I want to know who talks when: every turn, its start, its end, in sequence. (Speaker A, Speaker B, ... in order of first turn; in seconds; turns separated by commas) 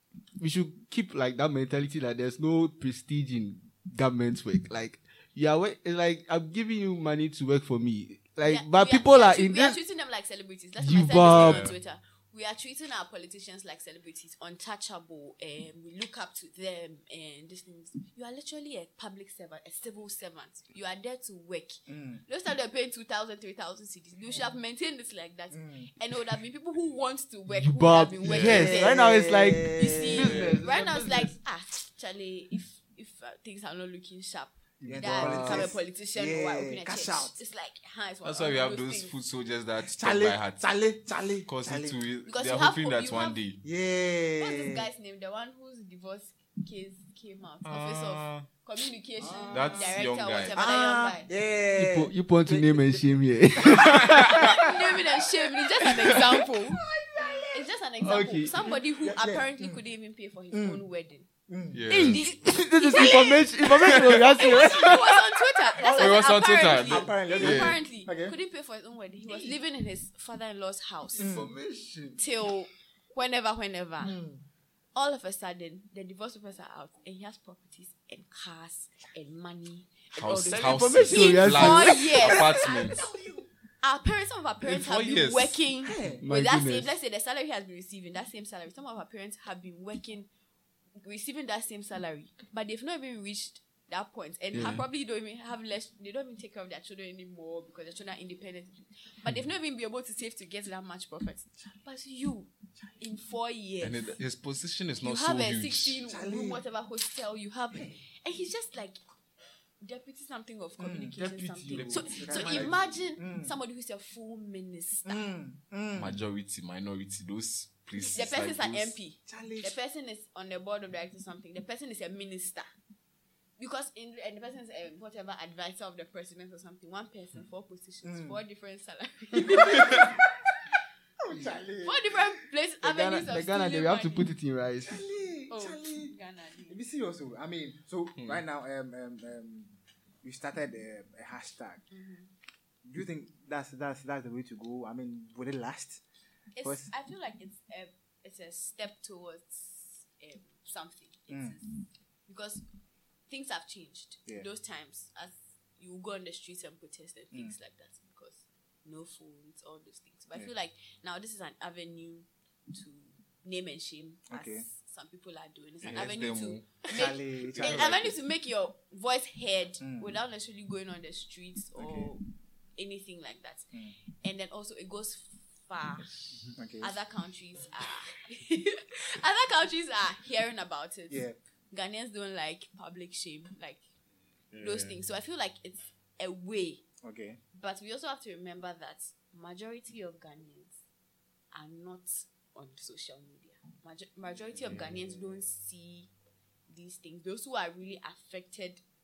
Speaker A: 0.4-9.8, Speaker B: 8.4-39.2, Speaker A: 10.8-11.6, Speaker C: 11.2-11.7, Speaker D: 21.9-22.2, Speaker D: 25.5-25.9, Speaker A: 27.5-31.3, Speaker C: 28.2-28.7, Speaker D: 28.4-30.4, Speaker C: 30.2-30.6, Speaker A: 34.8-35.7, Speaker D: 34.9-37.3, Speaker C: 38.2-40.7, Speaker D: 39.8-42.0, Speaker C: 41.5-43.6, Speaker B: 42.2-43.4, Speaker D: 43.6-44.9, Speaker B: 44.4-51.3, Speaker C: 47.6-48.5, Speaker D: 49.2-53.0, Speaker C: 49.5-50.7, Speaker A: 51.8-54.3, Speaker C: 53.6-54.4, Speaker D: 53.7-54.7, Speaker B: 54.3-56.8, Speaker D: 55.2-57.6, Speaker B: 57.5-61.3, Speaker A: 58.0-58.5, Speaker D: 58.5-59.8, Speaker D: 60.5-60.8, Speaker D: 61.5-61.8, Speaker C: 61.7-62.2, Speaker B: 61.9-71.3, Speaker A: 62.0-65.0, Speaker C: 63.6-64.4, Speaker D: 65.8-68.3, Speaker C: 65.9-67.8, Speaker D: 71.2-71.5, Speaker A: 71.2-72.2, Speaker B: 72.2-74.1, Speaker D: 74.0-74.4, Speaker B: 74.9-83.1, Speaker C: 80.2-83.1, Speaker A: 80.3-82.2, Speaker D: 82.2-83.5, Speaker B: 83.8-90.3, Speaker C: 84.6-85.6, Speaker D: 85.8-86.2, Speaker A: 86.2-86.9, Speaker B: 91.0-104.2, Speaker A: 94.5-94.8, Speaker C: 103.8-106.0, Speaker B: 105.0-109.0, Speaker D: 106.1-106.6, Speaker B: 109.8-115.2, Speaker D: 110.8-113.5, Speaker C: 111.2-112.8, Speaker D: 115.0-116.2, Speaker C: 116.0-119.0, Speaker B: 118.0-122.7, Speaker D: 119.3-119.7, Speaker B: 123.6-130.2, Speaker D: 128.0-128.4, Speaker D: 129.4-130.2, Speaker D: 131.2-132.2, Speaker B: 131.8-134.3, Speaker A: 132.8-135.0, Speaker D: 134.8-136.1, Speaker B: 135.5-136.8, Speaker D: 136.7-141.8, Speaker B: 141.9-142.3, Speaker D: 142.8-146.0, Speaker B: 146.5-152.6, Speaker D: 146.6-146.9, Speaker D: 151.3-151.6, Speaker B: 153.3-172.2, Speaker D: 164.3-164.6, Speaker C: 165.8-166.9, Speaker D: 166.9-168.1, Speaker C: 167.6-168.1, Speaker D: 169.8-170.2, Speaker D: 171.8-172.1, Speaker B: 172.8-176.1, Speaker D: 176.6-176.9, Speaker B: 176.8-183.8, Speaker D: 181.1-181.3, Speaker C: 184.5-185.0, Speaker B: 184.6-186.8, Speaker D: 187.0-187.4, Speaker B: 187.5-190.8, Speaker B: 191.5-196.1, Speaker D: 194.5-195.4, Speaker C: 194.7-194.9, Speaker B: 196.7-198.8